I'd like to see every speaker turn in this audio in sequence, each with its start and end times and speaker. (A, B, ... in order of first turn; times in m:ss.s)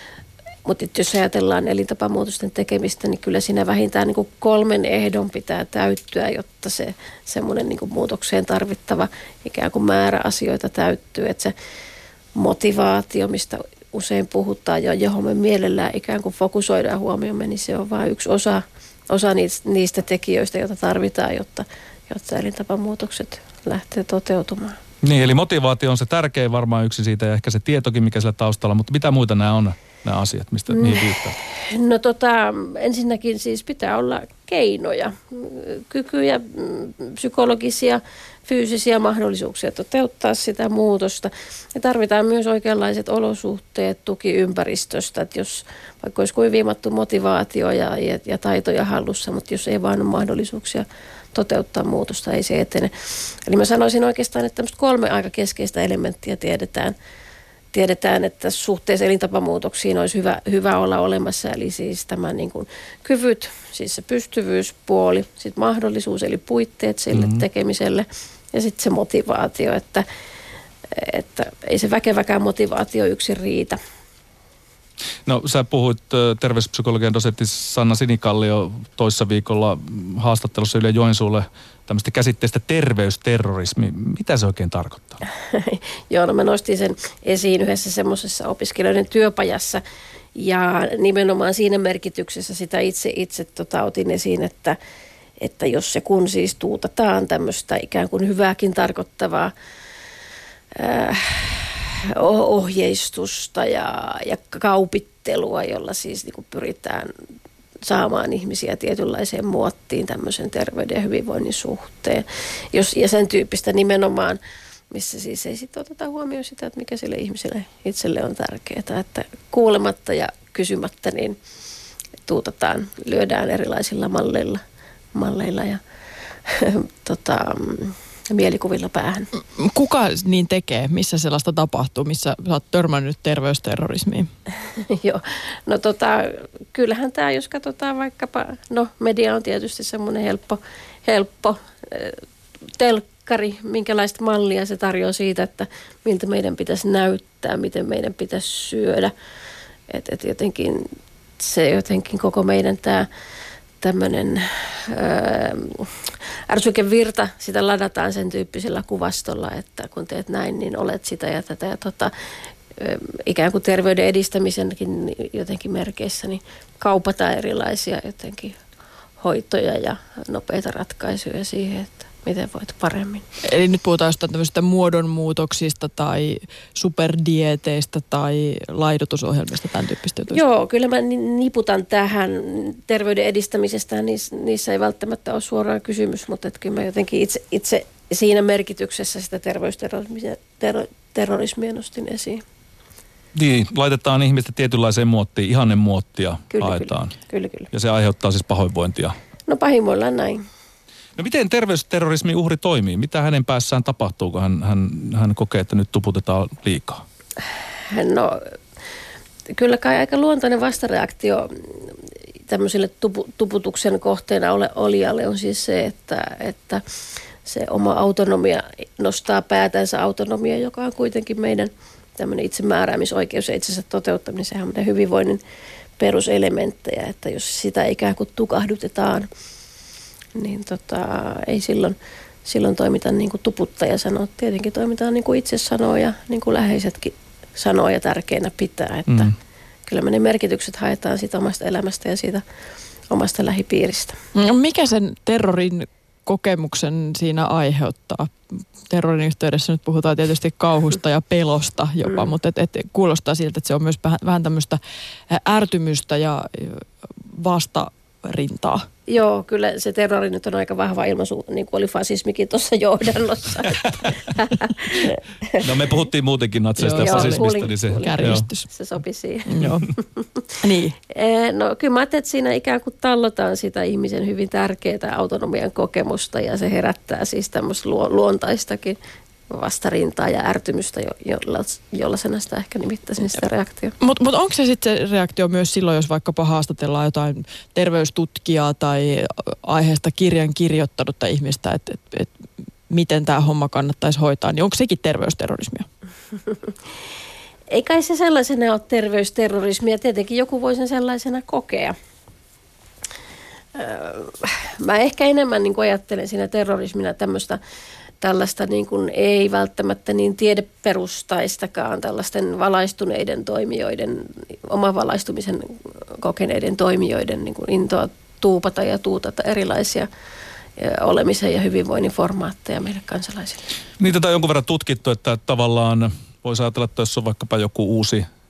0:00.6-0:11.5 A
0:12.4-0:24.8 A
0:25.0-0:31.4 B
0:30.7-0:57.0 A
0:57.7-1:10.0 A
1:07.1-1:07.4 B
1:10.9-1:13.8 A
1:15.2-1:25.2 B
1:25.5-1:29.8 A
1:30.4-1:34.8 A
1:35.4-1:39.5 A
1:40.8-1:47.1 A
1:47.9-1:54.4 A
1:54.9-2:01.4 A
2:02.2-2:04.6 A
2:05.1-2:05.8 A
2:06.5-2:09.3 A
2:09.4-2:14.3 C
2:14.9-2:22.2 A
2:22.8-2:29.1 A
2:29.9-2:30.8 A
2:31.4-2:33.1 A
2:33.8-2:42.1 A
2:42.8-2:48.6 A
2:49.2-2:53.2 A
2:53.4-3:00.4 C
3:00.3-3:12.4 A
3:13.3-3:17.2 B
3:16.5-3:17.7 A
3:17.7-3:19.1 B
3:19.5-3:20.4 A
3:21.2-3:27.0 B
3:27.9-3:28.4 A
3:29.5-3:31.9 A
3:32.5-3:36.8 A
3:37.4-3:45.4 A
3:46.0-3:49.3 A
3:50.3-3:59.3 A
3:59.9-4:02.4 A
4:03.1-4:04.2 A
4:04.3-4:08.3 C
4:08.9-4:18.9 C
4:19.1-4:25.6 A
4:25.6-4:28.4 B
4:26.8-4:27.4 C
4:26.9-4:30.4 A
4:28.0-4:28.7 C
4:29.4-4:29.9 C
4:30.6-4:31.0 C
4:31.1-4:39.0 A
4:39.5-4:43.9 A
4:44.0-4:52.3 C
4:52.9-4:55.8 C
4:57.7-5:01.9 A
5:03.7-5:07.6 A
5:08.2-5:20.1 A
5:20.8-5:23.7 A
5:24.0-5:28.2 B